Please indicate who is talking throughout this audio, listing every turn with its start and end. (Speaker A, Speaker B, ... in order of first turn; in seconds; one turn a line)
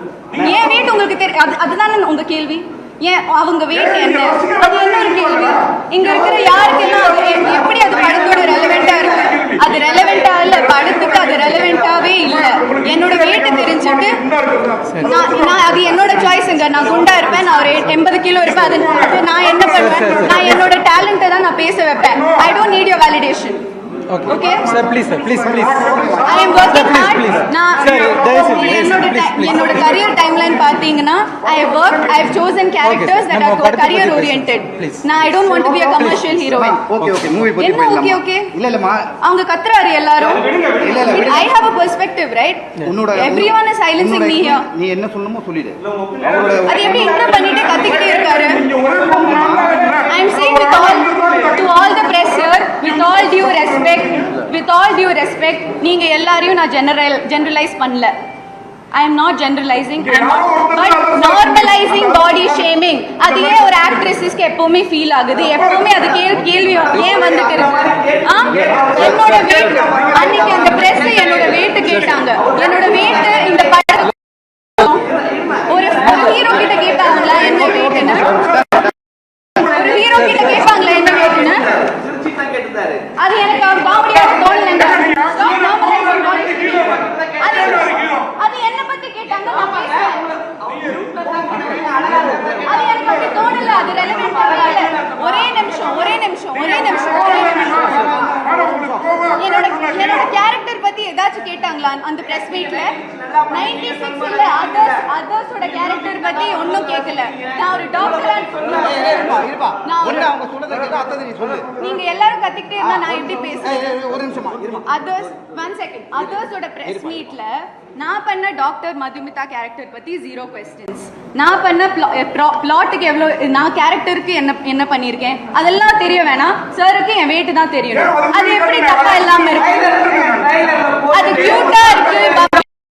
Speaker A: 0.3-1.0
Speaker B: 0.4-14.2
Speaker A: 3.7-16.1
Speaker C: 9.7-10.4
Speaker C: 11.6-12.1
Speaker B: 15.0-23.6
Speaker A: 18.4-20.6
Speaker D: 19.8-20.7
Speaker A: 22.0-22.6
Speaker D: 24.1-25.9
Speaker A: 24.2-30.6
Speaker B: 24.3-24.8
Speaker E: 25.9-26.3
Speaker B: 26.2-36.8
Speaker D: 26.6-30.1
Speaker A: 31.4-32.5
Speaker D: 32.8-35.3
Speaker E: 35.4-36.0
Speaker D: 35.9-37.4
Speaker E: 36.5-39.1
Speaker B: 37.6-38.5
Speaker B: 39.2-44.7
Speaker C: 40.2-41.3
Speaker E: 40.8-41.5
Speaker E: 42.9-47.2
Speaker C: 45.8-48.1
Speaker B: 46.6-48.6
Speaker A: 47.2-54.3
Speaker C: 49.0-50.0
Speaker B: 50.0-58.1
Speaker B: 58.9-74.2
Speaker A: 60.0-64.1
Speaker A: 65.4-66.2
Speaker D: 66.5-67.0
Speaker C: 66.7-73.9
Speaker A: 68.7-70.7
Speaker C: 74.8-77.9
Speaker B: 75.7-78.4
Speaker A: 77.2-78.9
Speaker E: 78.4-78.8
Speaker B: 79.6-81.7
Speaker A: 79.6-80.4
Speaker D: 80.1-80.8
Speaker C: 80.8-83.1
Speaker B: 83.2-90.2
Speaker A: 84.0-88.3
Speaker C: 85.9-88.0
Speaker C: 89.3-98.4
Speaker A: 90.6-94.4
Speaker B: 92.7-98.2
Speaker A: 96.5-100.4
Speaker E: 98.2-98.8
Speaker B: 99.4-103.0
Speaker C: 102.2-105.1
Speaker B: 103.5-110.3
Speaker C: 105.6-109.5
Speaker E: 108.8-111.7
Speaker B: 111.8-129.8
Speaker E: 112.8-114.8
Speaker E: 116.9-117.2
Speaker A: 127.9-130.5
Speaker C: 129.5-132.4
Speaker B: 131.1-132.6
Speaker A: 131.3-132.6